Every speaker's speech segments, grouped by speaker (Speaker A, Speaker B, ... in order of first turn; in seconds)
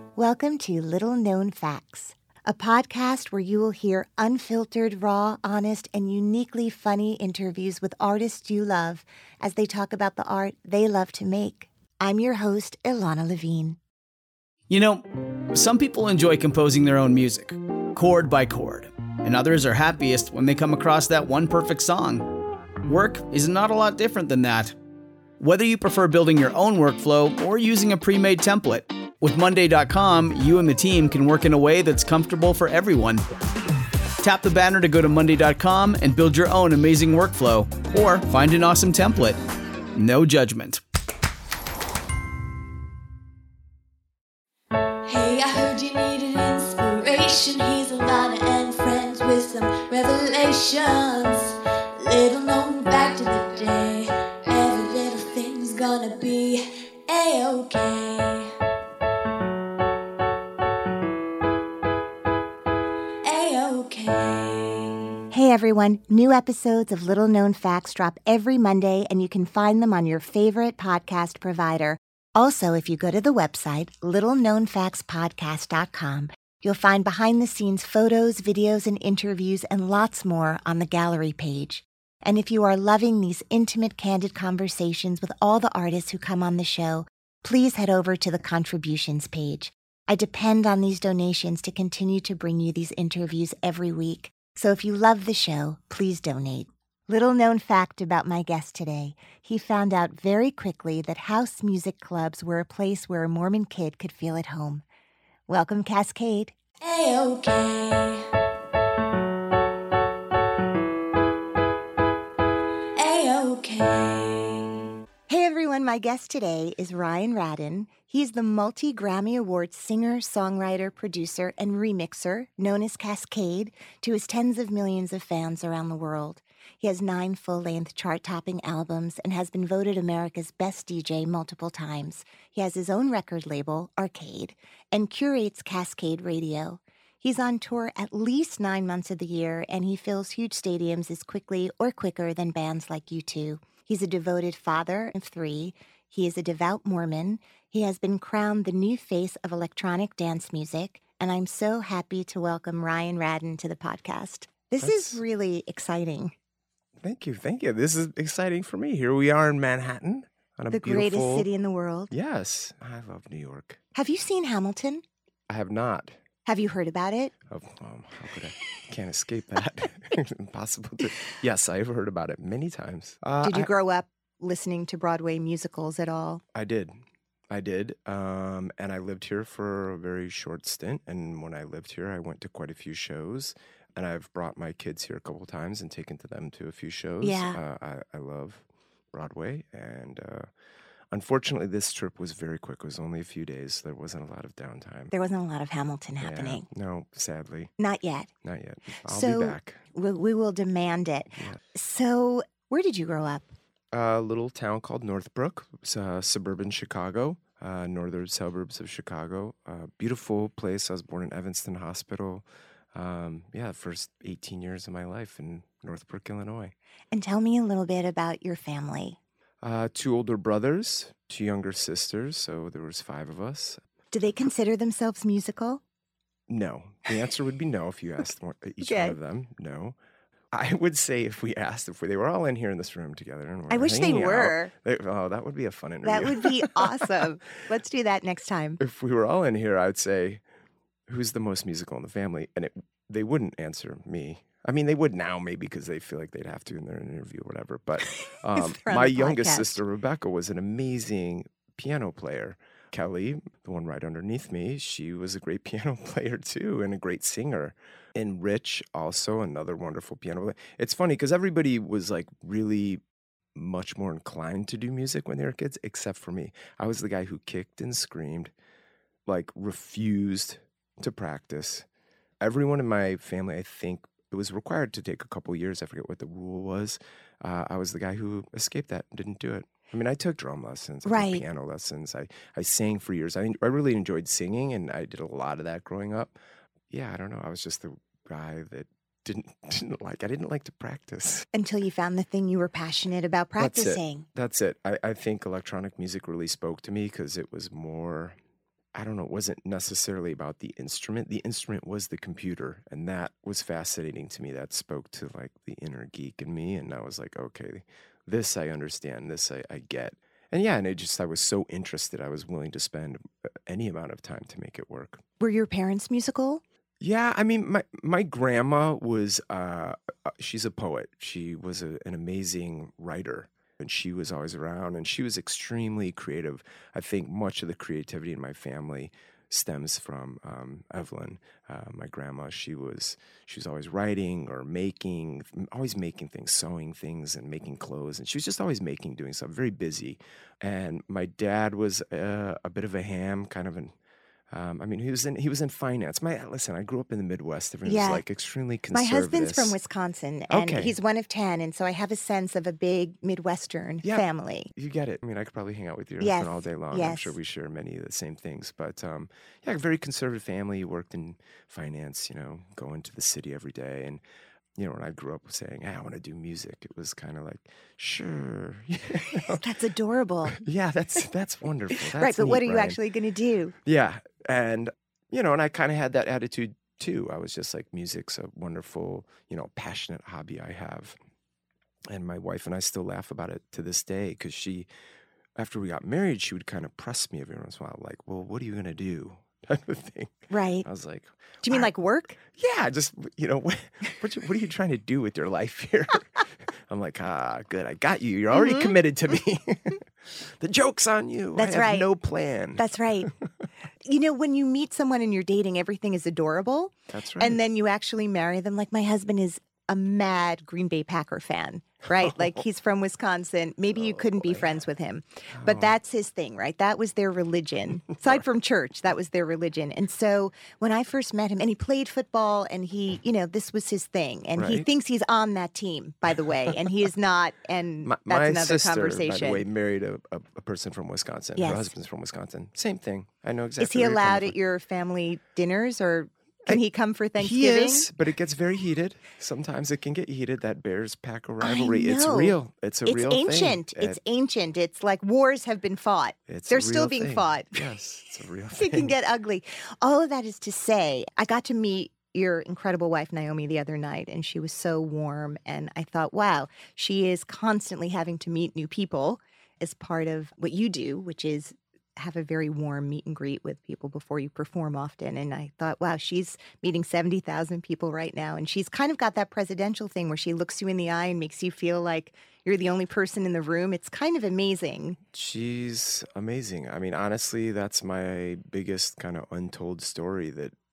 Speaker A: 0.1-13.8, 65.3-104.8, 105.5-106.5, 115.3-156.3, 160.7-162.1, 163.9-165.0, 166.4-167.3, 173.4-176.4, 187.2-187.6, 195.1-196.6, 197.8-198.3, 199.0-203.5, 217.1-219.2, 224.1-225.8, 228.8-229.2, 233.7-234.7, 236.0-238.8, 248.1-249.8, 281.0-281.4, 291.5-294.2, 315.4-316.6, 347.8-348.2, 348.9-354.7, 356.2-357.3, 369.6-370.6, 372.1-373.7, 390.5-390.9, 391.6-392.4, 398.5-398.9, 401.6-402.1, 402.8-403.3, 404.0-429.6, 431.6-431.9, 433.8-438.1, 441.6-447.8, 448.8-475.2
Speaker B: 14.7-22.2, 22.9-24.7, 25.4-33.2, 34.2-39.4, 40.0-40.8
Speaker C: 45.0-58.5, 63.2-65.1, 106.8-108.2, 113.0-114.8
Speaker D: 154.8-155.2, 157.0-161.5, 162.1-163.8, 165.5-166.2, 167.5-173.7, 176.5-177.0, 177.5-190.5, 191.1-195.1, 196.2-197.7, 198.4-199.8, 203.9-216.7, 219.6-223.8, 226.5-229.9, 230.5-237.3, 238.8-240.4, 241.1-263.0, 263.5-268.5, 269.2-271.9, 272.4-286.4, 286.9-291.4, 293.6-298.4, 298.9-315.2, 317.0-343.9, 344.5-349.8, 350.5-350.9, 354.0-364.2, 364.8-369.6, 370.5-373.0, 373.8-381.2, 382.1-384.9, 385.6-391.9, 392.4-403.3, 407.1-407.6, 412.2-412.6, 413.9-414.8, 415.5-415.9, 424.6-424.9, 428.0-434.5, 437.4-444.2, 446.5-449.1, 475.3-480.7